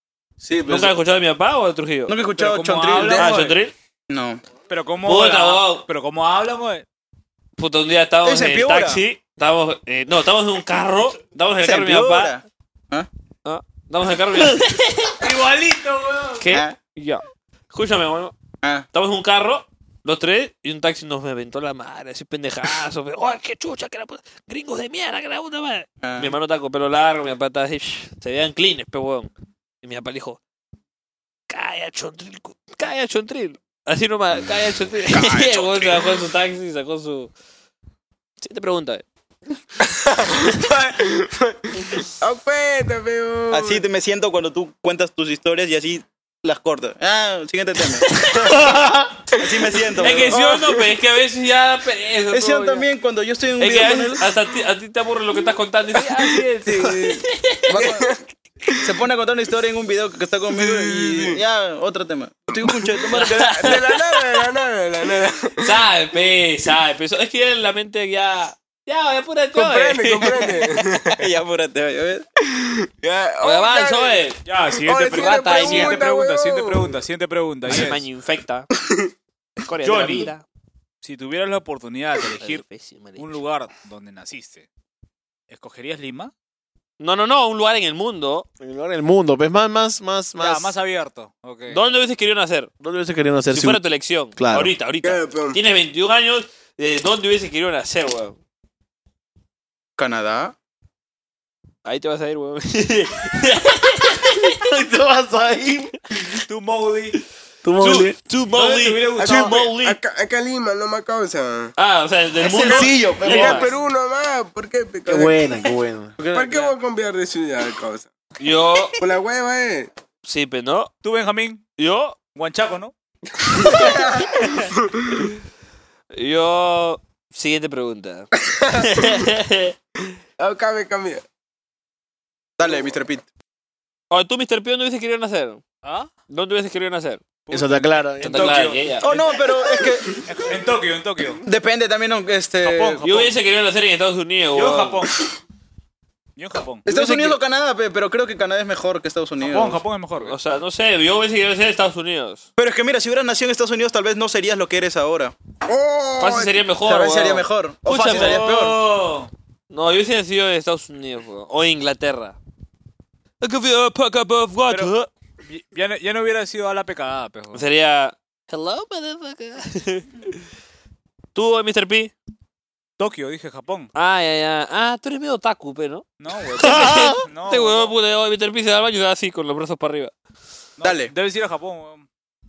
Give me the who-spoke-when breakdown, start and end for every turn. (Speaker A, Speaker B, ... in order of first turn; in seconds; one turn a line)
Speaker A: 0.4-1.0
Speaker B: 0.7-2.1
Speaker C: 2.1-3.4
Speaker D: 2.3-3.6
Speaker B: 3.0-3.7
Speaker C: 4.1-4.4
Speaker D: 4.7-6.8
Speaker B: 5.0-5.8
Speaker B: 7.6-12.3
Speaker C: 8.2-9.0
Speaker C: 11.6-13.1
Speaker B: 13.4-15.2
Speaker D: 15.2-16.4
Speaker B: 16.4-18.3
Speaker C: 16.5-16.8
Speaker B: 18.9-29.3
Speaker C: 26.0-26.3
Speaker B: 29.8-30.4
Speaker B: 31.5-37.3
Speaker E: 35.3-35.9
Speaker B: 38.4-39.0
Speaker E: 39.8-43.8
Speaker C: 43.5-48.1
Speaker B: 48.2-48.5
Speaker A: 48.5-49.1
Speaker C: 49.4-50.6
Speaker B: 50.0-52.8
Speaker C: 52.3-54.2
Speaker B: 53.6-57.8
Speaker E: 56.6-58.8
Speaker C: 57.7-58.0
Speaker C: 58.8-63.8
Speaker E: 60.5-61.4
Speaker B: 63.1-63.9
Speaker E: 63.4-65.7
Speaker B: 65.6-70.8
Speaker E: 69.5-71.2
Speaker C: 71.2-72.2
Speaker E: 72.6-77.0
Speaker B: 73.4-74.4
Speaker D: 74.4-78.0
Speaker B: 75.1-76.0
Speaker B: 77.7-78.7
Speaker E: 78.8-79.1
Speaker B: 79.6-80.4
Speaker D: 79.8-80.3
Speaker D: 81.0-82.6
Speaker B: 82.4-83.3
Speaker D: 83.2-84.7
Speaker D: 85.5-86.3
Speaker B: 87.0-88.5
Speaker A: 88.6-90.7
Speaker D: 90.4-91.8
Speaker B: 91.7-92.7
Speaker A: 92.8-93.8
Speaker B: 93.5-98.4
Speaker A: 94.3-94.7
Speaker E: 95.0-95.6
Speaker C: 100.0-100.5
Speaker B: 101.8-104.5
Speaker A: 104.5-105.9
Speaker D: 106.5-107.2
Speaker A: 107.6-108.2
Speaker B: 107.8-110.0
Speaker D: 108.5-109.5
Speaker E: 109.2-111.7
Speaker B: 111.8-113.7
Speaker A: 112.4-113.7
Speaker E: 112.6-115.4
Speaker A: 115.0-116.1
Speaker C: 116.2-116.7
Speaker E: 116.3-118.1
Speaker B: 118.4-119.0
Speaker E: 119.0-119.9
Speaker B: 120.2-120.9
Speaker D: 121.0-121.6
Speaker B: 121.8-122.2
Speaker D: 122.3-122.9
Speaker E: 123.5-125.2
Speaker B: 126.1-129.7
Speaker E: 128.5-128.8
Speaker E: 130.4-131.2
Speaker C: 132.6-133.3
Speaker B: 134.1-135.6
Speaker D: 135.8-136.1
Speaker B: 136.3-137.2
Speaker D: 137.5-139.3
Speaker A: 137.5-138.6
Speaker B: 138.2-139.1
Speaker C: 139.0-140.2
Speaker D: 140.2-141.4
Speaker C: 141.4-143.1
Speaker D: 142.6-143.3
Speaker B: 143.0-145.0
Speaker D: 144.5-145.2
Speaker D: 146.4-146.9
Speaker C: 146.8-149.8
Speaker D: 149.4-150.3
Speaker B: 150.2-152.4
Speaker C: 152.6-155.3
Speaker E: 155.7-156.7
Speaker B: 156.2-158.9
Speaker C: 156.8-158.8
Speaker D: 158.0-159.3
Speaker B: 159.7-162.4
Speaker B: 163.4-165.1
Speaker D: 165.4-167.6
Speaker B: 167.5-170.3
Speaker B: 171.3-172.1
Speaker D: 173.0-173.9
Speaker B: 173.9-176.0
Speaker D: 176.2-177.9
Speaker B: 176.6-180.1
Speaker D: 180.8-182.1
Speaker C: 180.8-181.1